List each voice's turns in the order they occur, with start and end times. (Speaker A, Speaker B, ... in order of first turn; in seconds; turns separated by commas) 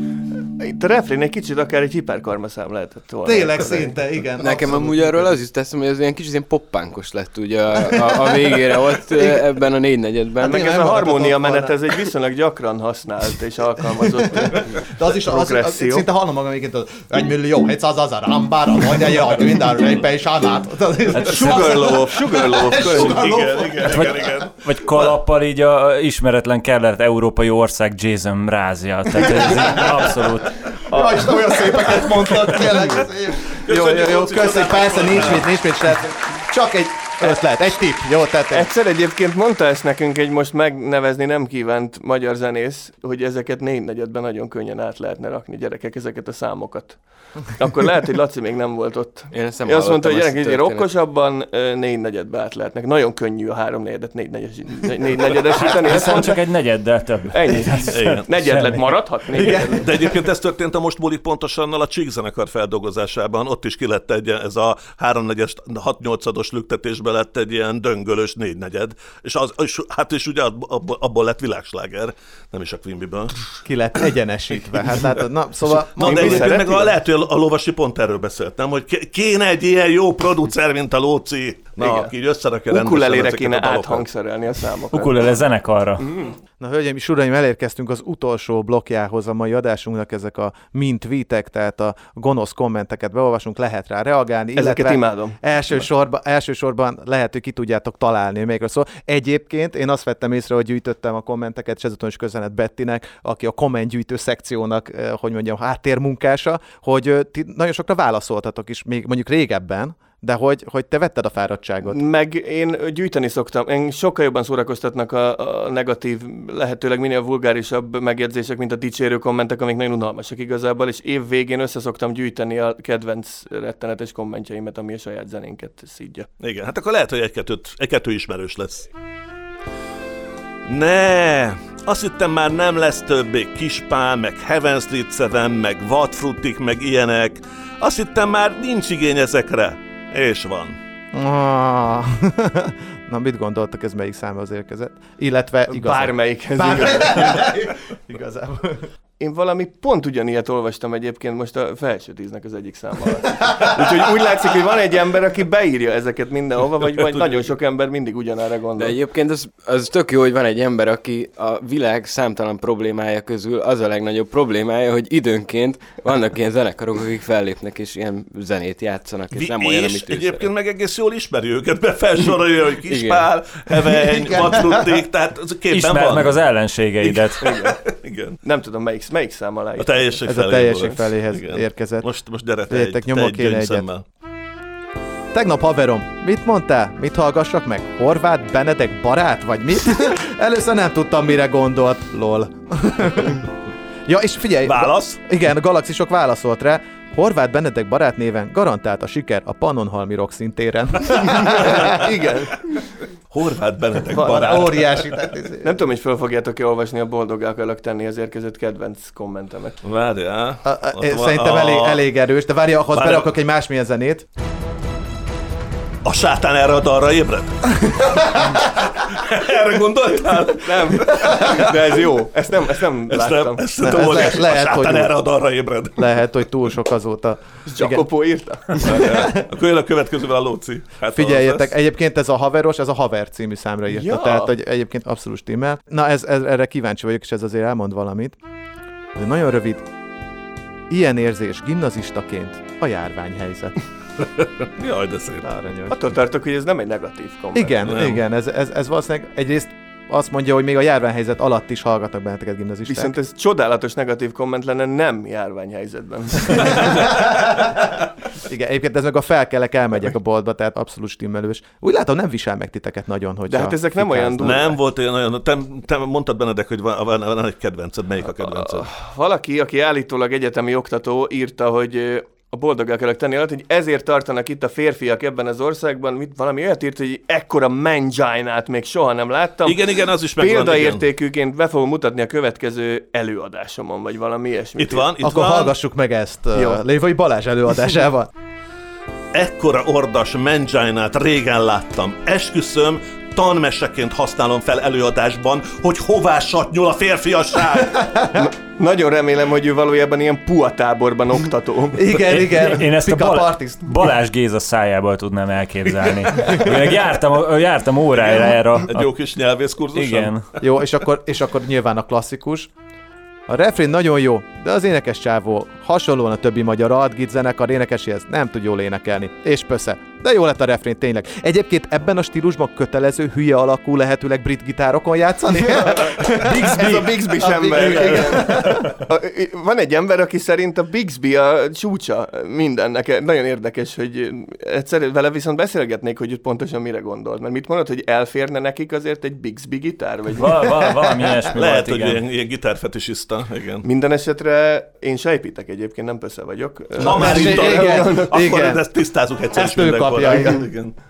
Speaker A: 0.6-4.0, Speaker B: 3.2-5.3, Speaker C: 4.4-10.7, Speaker B: 8.0-9.5, Speaker A: 10.4-16.1, Speaker B: 10.4-11.8, Speaker B: 14.9-24.3, Speaker A: 21.1-23.2, Speaker D: 22.8-25.1, Speaker E: 23.8-30.6, Speaker B: 29.4-29.7, Speaker A: 30.9-32.5, Speaker B: 30.9-38.7, Speaker D: 33.6-35.5, Speaker A: 38.5-56.4, Speaker C: 49.3-50.9, Speaker E: 55.6-58.8, Speaker A: 57.3-59.9, Speaker D: 57.9-58.3, Speaker B: 59.4-60.2, Speaker D: 59.4-73.5, Speaker B: 73.7-76.5, Speaker A: 76.0-77.0, Speaker D: 76.0-84.1, Speaker A: 81.8-82.1, Speaker A: 82.7-85.3, Speaker E: 84.9-86.0, Speaker A: 86.0-86.3, Speaker B: 86.6-112.0, Speaker A: 94.6-95.4, Speaker A: 111.8-126.3, Speaker D: 126.4-128.9, Speaker D: 130.7-140.8, Speaker B: 141.1-148.8, Speaker A: 145.7-147.5, Speaker A: 149.2-159.0, Speaker D: 157.0-157.5, Speaker C: 158.8-170.5, Speaker D: 169.3-176.4, Speaker C: 172.9-173.3, Speaker B: 174.3-175.0, Speaker E: 175.7-177.4, Speaker D: 177.0-178.4, Speaker A: 177.4-177.8, Speaker A: 178.4-180.2, Speaker D: 179.8-184.0, Speaker B: 180.3-182.1, Speaker B: 182.7-183.9, Speaker B: 185.3-193.4, Speaker B: 194.1-202.1, Speaker D: 194.6-195.2, Speaker A: 201.3-202.6, Speaker D: 203.3-205.2, Speaker A: 204.2-204.6, Speaker B: 204.2-205.8, Speaker A: 205.6-209.8, Speaker D: 209.8-212.0, Speaker B: 210.7-214.3, Speaker D: 212.9-213.3, Speaker D: 216.1-222.1, Speaker B: 217.8-218.5, Speaker A: 220.6-224.2, Speaker D: 223.1-226.3, Speaker B: 223.8-225.2, Speaker B: 226.0-228.1, Speaker A: 227.7-229.3, Speaker D: 228.8-231.7, Speaker B: 231.1-238.4, Speaker A: 233.9-234.5, Speaker B: 239.2-239.8, Speaker B: 240.9-243.7, Speaker D: 244.2-245.5, Speaker B: 245.4-246.0, Speaker A: 245.9-247.9, Speaker B: 247.5-253.2, Speaker D: 247.8-248.2, Speaker A: 252.9-257.1, Speaker B: 257.2-257.7, Speaker B: 258.5-264.6, Speaker A: 263.5-264.8, Speaker D: 264.4-268.9, Speaker A: 268.2-285.2, Speaker D: 279.6-281.1, Speaker D: 284.8-285.7, Speaker B: 285.2-288.3, Speaker A: 286.6-286.8, Speaker D: 289.3-298.2, Speaker A: 298.4-302.1, Speaker B: 302.0-304.0, Speaker E: 302.2-309.1, Speaker D: 308.2-310.4, Speaker E: 309.9-310.4, Speaker B: 310.6-312.7, Speaker B: 313.5-328.9, Speaker A: 325.6-340.7, Speaker E: 340.4-342.2, Speaker D: 341.6-343.9, Speaker A: 343.8-348.4, Speaker B: 347.0-348.8, Speaker D: 347.0-350.9, Speaker B: 349.5-350.7